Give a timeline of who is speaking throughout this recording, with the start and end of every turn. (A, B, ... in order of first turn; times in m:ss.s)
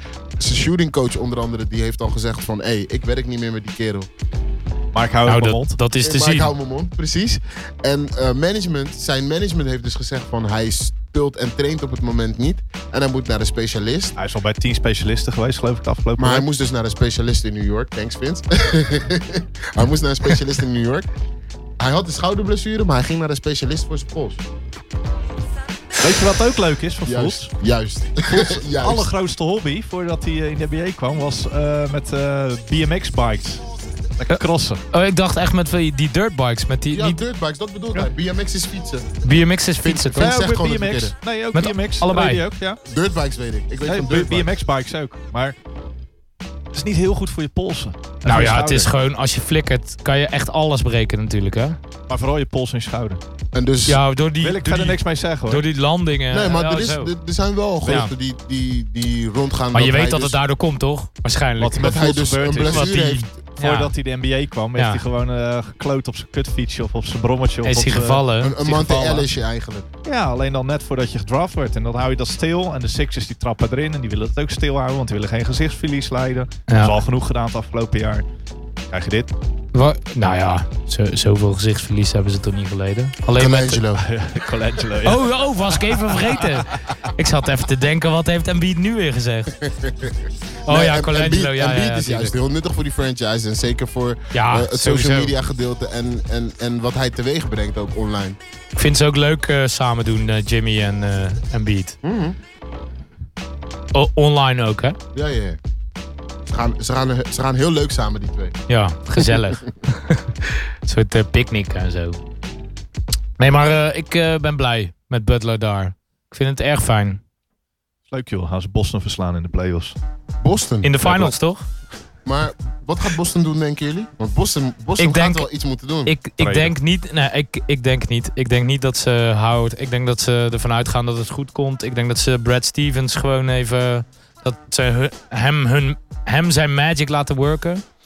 0:00.4-0:04.1 A
0:04.9-0:05.8 B
0:05.3-0:06.5 C
0:06.0-0:14.1 A
0:14.2-0:16.4 B
0:16.2-0:21.1 A
0:21.8-0:24.4 A
0:26.0-0:27.5 B
0:27.0-0:29.1 A
0:28.3-0:33.6 B
0:34.2-0:34.8 B
0:34.9-0:37.2 C
0:36.9-0:39.1 A
0:39.2-0:40.3 C
0:39.8-0:41.1 A
0:40.1-0:42.8 B
0:41.5-0:42.4 C
0:42.8-0:44.5 A
0:43.8-0:45.6 B
0:46.7-0:48.9 B
0:48.2-0:51.8 C
0:52.1-0:53.2 B
0:53.5-0:54.0 A
0:53.8-0:57.1 C
0:54.4-0:55.6 B
0:56.3-1:00.4 A
0:57.8-0:58.1 C
0:59.7-1:02.0 C
1:01.6-1:08.2 B
1:01.8-1:03.3 A
1:02.6-1:03.9 C
1:04.8-1:05.0 C
1:07.6-1:09.2 C
1:08.4-1:09.9 A
1:10.0-1:18.2 B
1:16.7-1:16.9 C
1:18.9-1:19.3 B
1:19.7-1:23.8 C
1:23.3-1:24.0 A
1:24.0-1:25.3 B
1:25.0-1:29.6 C
1:29.6-1:38.4 A
1:30.7-1:32.3 C
1:34.3-1:35.3 C
1:38.7-1:42.0 C
1:42.0-1:42.4 A
1:43.9-1:45.0 C
1:45.1-1:45.6 A
1:46.5-1:48.6 A
1:48.7-1:52.2 C
1:53.4-1:57.2 C
1:58.1-2:00.0 B
2:00.4-2:01.0 A
2:00.8-2:01.7 C
2:01.0-2:01.3 B
2:02.2-2:06.1 A
2:05.0-2:05.5 C
2:06.0-2:17.8 C
2:06.4-2:06.7 B